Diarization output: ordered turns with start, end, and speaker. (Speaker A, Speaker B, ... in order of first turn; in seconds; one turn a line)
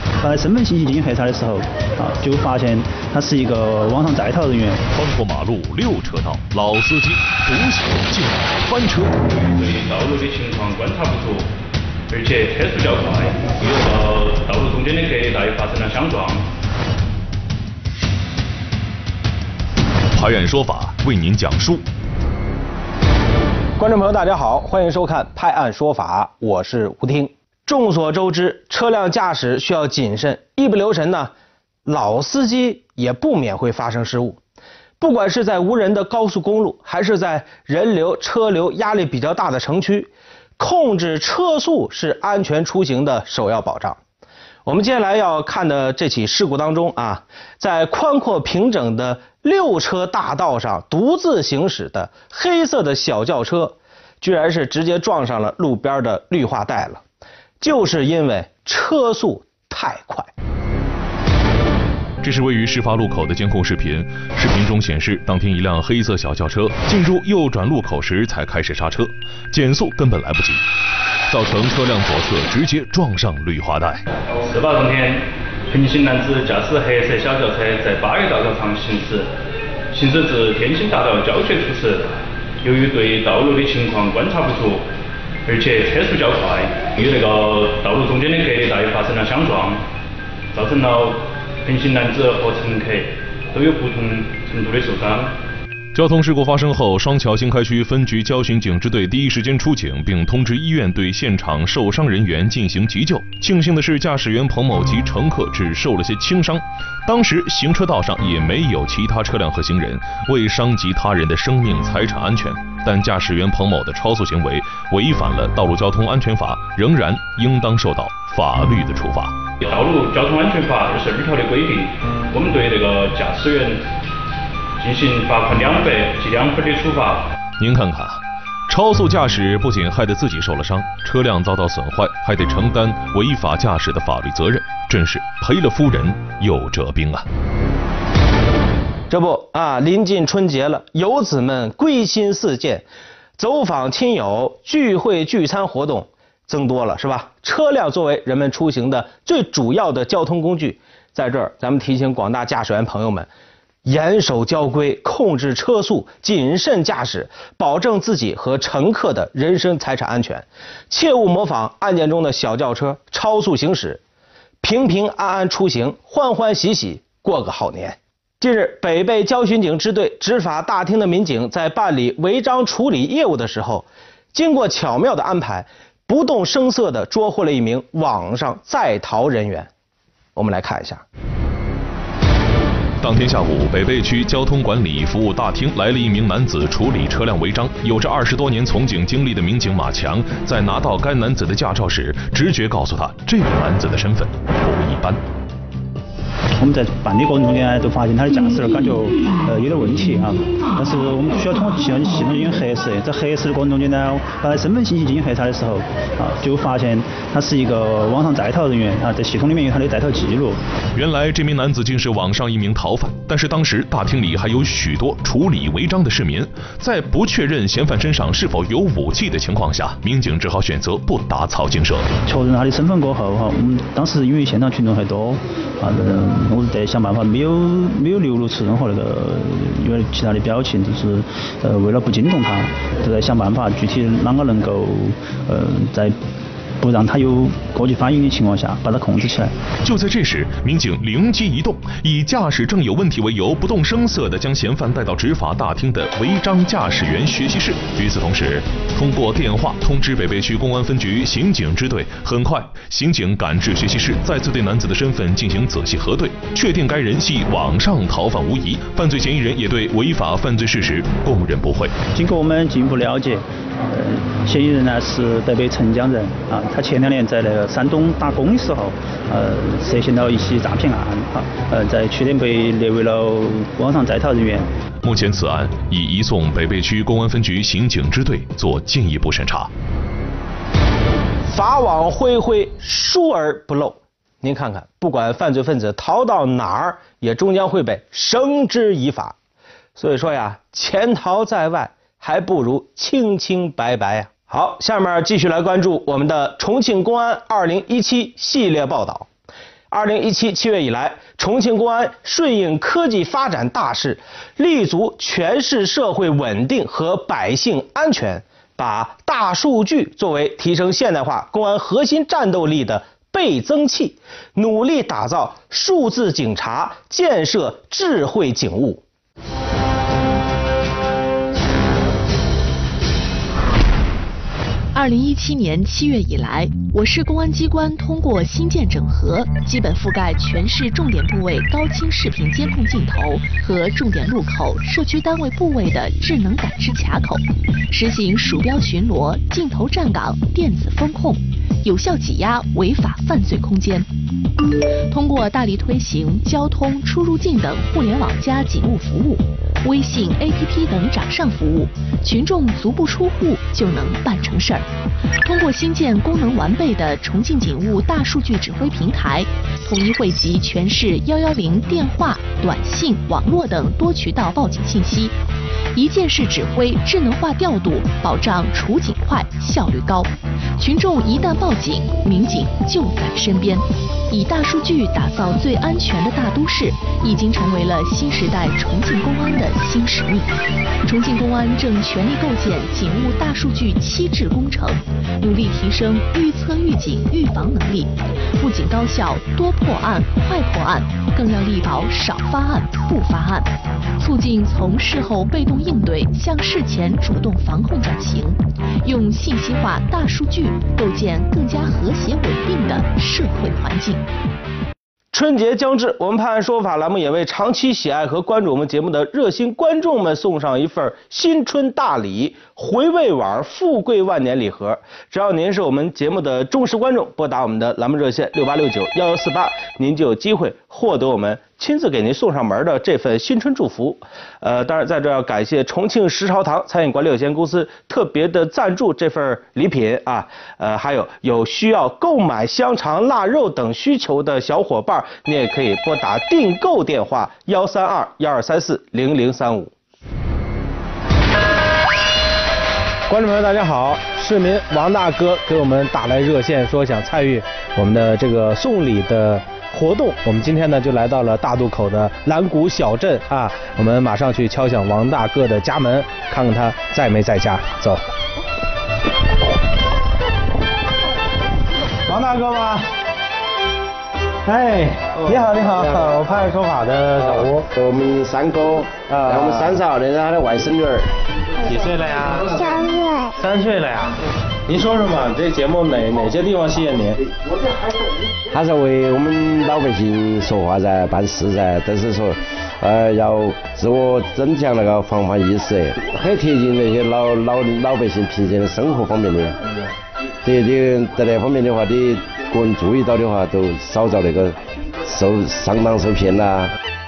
Speaker A: 0.2-4.8
Speaker B: 4.9-9.2
Speaker C: 9.3-11.5
Speaker C: 12.1-16.4
Speaker B: 20.1-21.8
Speaker D: 23.8-31.3
Speaker D: 31.9-34.4
Speaker D: 35.0-44.0
Speaker D: 44.7-57.0
Speaker D: 57.6-60.3
Speaker B: 62.2-70.6
Speaker B: 71.3-74.0
Speaker C: 74.4-79.3
Speaker C: 79.9-82.1
Speaker C: 82.6-84.8
Speaker C: 85.5-89.8
Speaker C: 90.5-95.3
Speaker B: 95.9-119.4
Speaker C: 119.6-123.8
Speaker C: 124.8-127.2
Speaker B: 127.6-137.2
Speaker D: 139.1-142.8
Speaker D: 143.4-153.3
Speaker D: 153.8-164.0
Speaker D: 164.6-179.7
Speaker D: 180.3-181.0
Speaker B: 183.0-195.2
Speaker A: 196.6-210.6
Speaker B: 210.9-222.1
Speaker A: 222.3-236.2
Speaker A: 236.8-239.5
Speaker B: 239.8-261.9
Speaker A: 262.1-274.7
Speaker B: 275.0-279.7
Speaker D: 281.5-289.4
Speaker D: 290.0-299.3
Speaker D: 299.9-319.0
Speaker E: 324.9-344.1
Speaker E: 345.1-354.9
Speaker E: 355.4-365.4
Speaker E: 365.9-380.5
Speaker E: 381.0-404.2
Speaker D: 405.3-439.9
Speaker D: 443.3-458.2
Speaker D: 462.2-463.1
Speaker D: 464.6-467.9
Speaker F: 465.4-466.4
Speaker F: 467.4-471.3
Speaker D: 469.3-470.0
Speaker D: 471.8-477.4
Speaker F: 478.7-489.8
Speaker F: 490.6-496.9